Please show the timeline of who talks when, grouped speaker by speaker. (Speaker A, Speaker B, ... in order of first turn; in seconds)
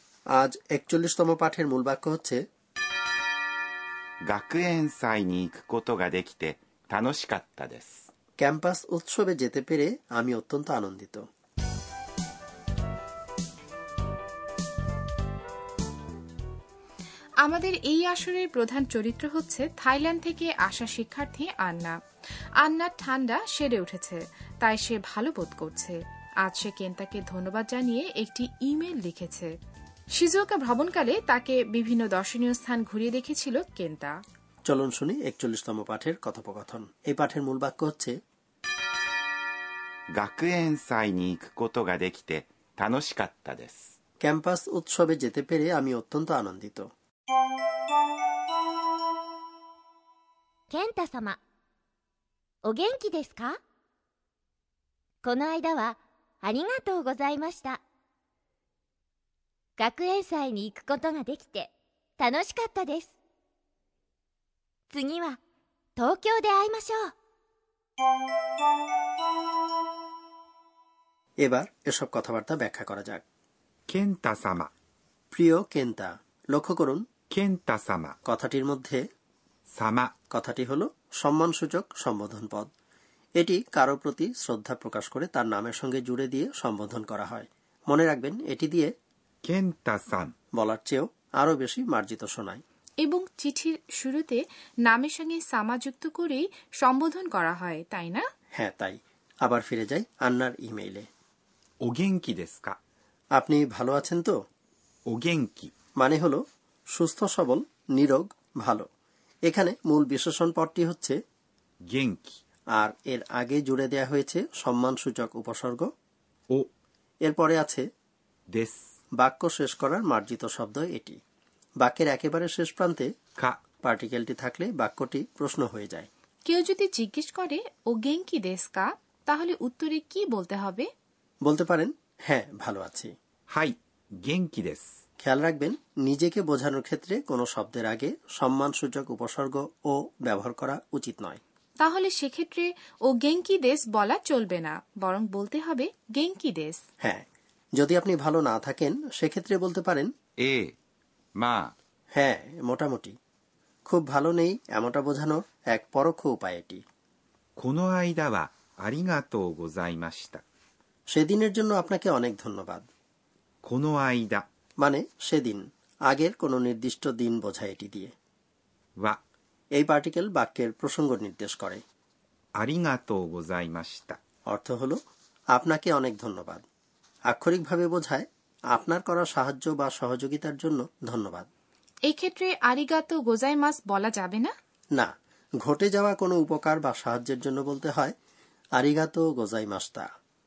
Speaker A: 0.4-2.4, 8.4-11.2, 34.7-38.1, 44.2-46.9, 71.4-73.2, 75.3-77.0, 78.3-79.0, 80.3-82.7, 83.4-88.9, 90.6-92.6, 98.5-101.0, 103.4-104.3, 106.0-106.4, 106.9-108.8, 109.5-111.2, 112.8-115.9, 117.2-117.8, 119.2-121.2, 121.8-123.1, 123.8-126.1, 131.4-133.1, 135.2-141.4, 147.8-150.1, 152.2-153.2, 153.9-156.8, 161.1-162.8, 164.8-168.1, 169.8-171.8, 174.5-175.0, 175.5-176.6, 177.3-181.5, 184.9-188.1, 188.8-190.1
Speaker B: 4.3-8.0, 40.2-43.9, 73.9-74.7, 77.3-78.2, 79.7-80.1, 89.4-90.3, 101.8-102.8, 105.1-105.7, 111.9-112.4, 118.5-118.8, 133.5-134.9, 150.4-150.8, 151.4-151.7, 157.6-160.4, 163.6-164.4, 172.6-174.2
Speaker C: 17.4-22.0, 22.6-29.5, 30.1-34.1, 93.0-98.2, 126.5-130.9, 141.8-146.8, 182.1-184.5
Speaker D: 50.7-51.4, 52.6-53.6, 55.2-57.8, 59.8-63.2, 64.9-65.4, 66.0-67.1